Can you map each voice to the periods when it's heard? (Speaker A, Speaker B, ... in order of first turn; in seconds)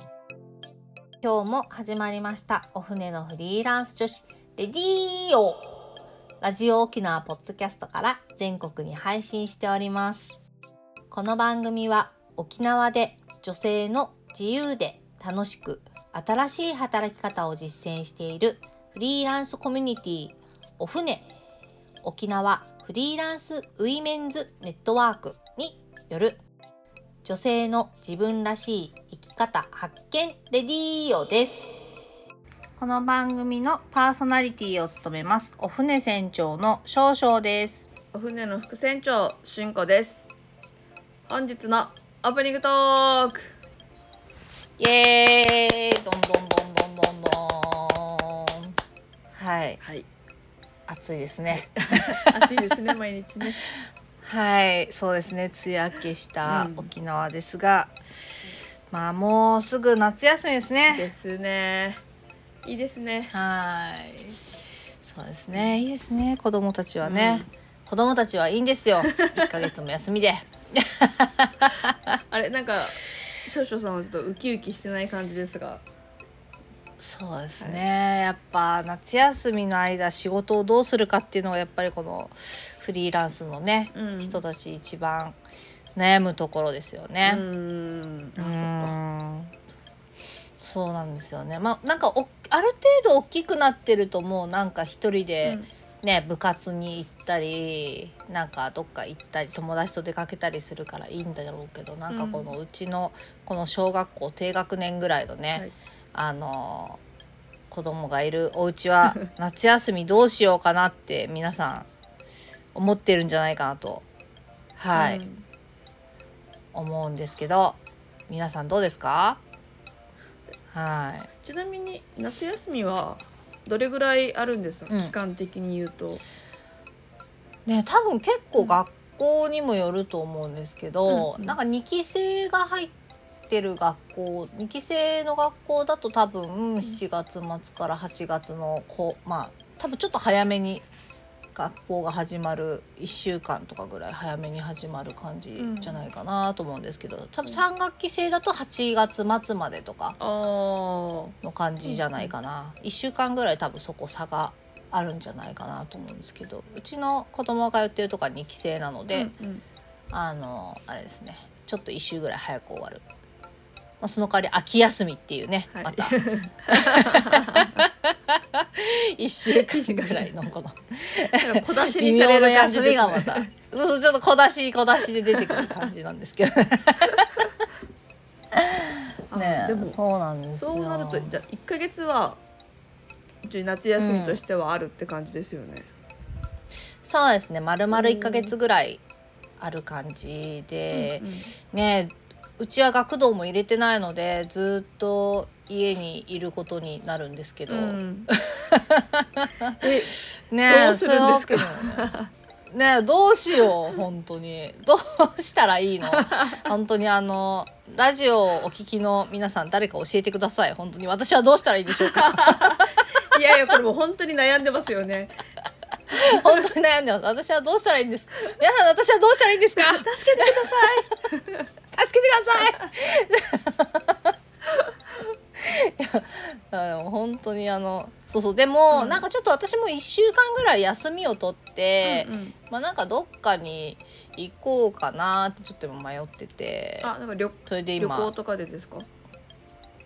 Speaker A: 1.2-5.7, 6.4-10.4, 11.1-21.2, 22.0-26.4, 27.2-31.8, 32.8-37.9, 44.8-48.7, 49.3-49.8, 50.9-52.4, 54.2-58.0, 58.9-61.1, 63.3-64.4, 65.0-71.9, 77.0-85.4, 86.0-87.4, 88.4-89.6, 90.6-107.0, 107.7-111.9, 112.7-114.0, 114.8-115.2, 116.7-117.8, 118.3-119.4, 120.7-121.3, 124.9-125.1, 127.7-132.9, 133.5-140.8, 141.5-150.2, 151.4-159.3, 160.1-163.0, 164.0-166.2, 167.7-177.5, 178.5-181.4, 184.0-184.4, 187.0-189.0, 189.6-199.7, 200.5-202.1, 202.7-212.8, 216.1-220.9, 221.9-224.3, 225.6-237.1, 237.7-238.3
Speaker B: 38.1-40.2, 41.3-43.5, 49.8-50.0, 51.5-53.6, 56.4-56.9, 60.9-62.0, 62.6-63.3, 65.5-65.8, 67.0-67.5, 69.1-69.5, 72.3-75.8, 83.9-84.4, 87.2-88.9, 102.1-102.5, 114.9-115.4, 121.4-126.2, 131.1-131.6, 145.6-146.0, 150.2-152.3, 159.1-159.6, 165.7-167.8, 169.5-170.3, 171.3-173.5, 175.4-175.7, 179.3-180.0, 180.6-182.4, 183.4-185.9, 187.9-188.5, 190.9-191.5, 197.7-198.3, 199.8-202.3, 206.1-206.5, 212.0-215.4, 219.8-221.6, 228.9-229.2, 232.0-232.5, 237.0-239.1